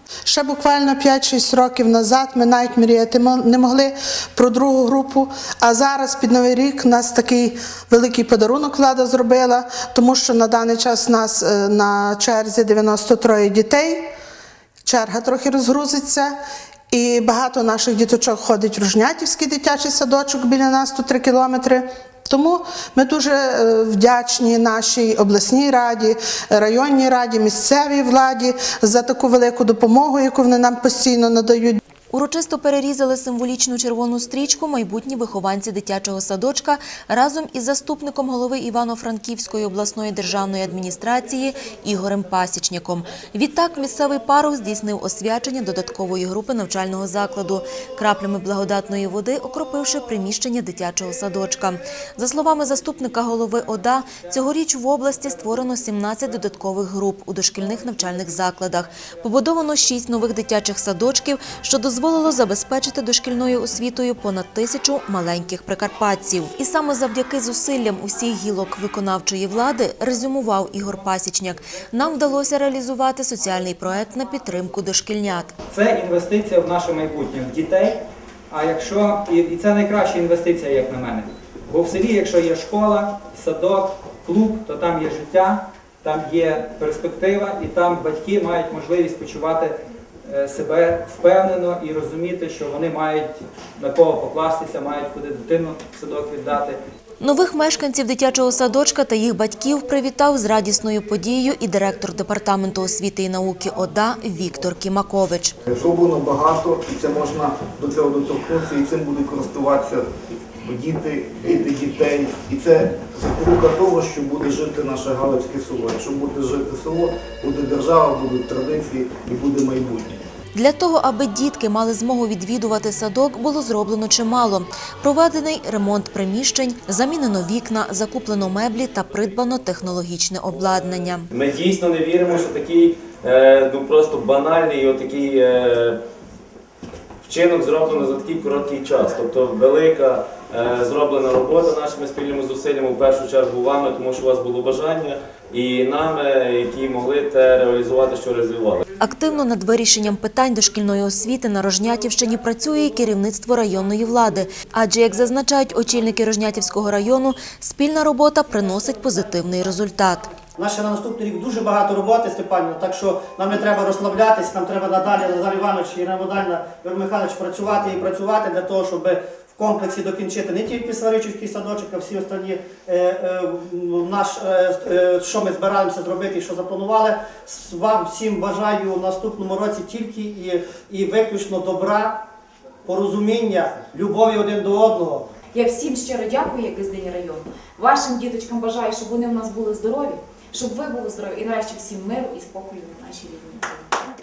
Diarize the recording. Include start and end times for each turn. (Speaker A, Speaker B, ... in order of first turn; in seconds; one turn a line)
Speaker A: 0.3-14.0
Speaker A: 14.8-16.3
Speaker A: 16.9-31.8
Speaker B: 32.1-75.5
Speaker C: 75.7-89.8
Speaker C: 90.3-96.8
Speaker B: 97.2-105.6
Speaker D: 105.7-110.1
Speaker D: 110.6-120.2
Speaker B: 120.5-131.3
Speaker E: 131.3-136.0
Speaker E: 137.2-148.8
Speaker B: 149.0-160.3
Speaker F: 160.6-182.2
Speaker F: 182.9-185.3
Speaker G: 185.6-193.8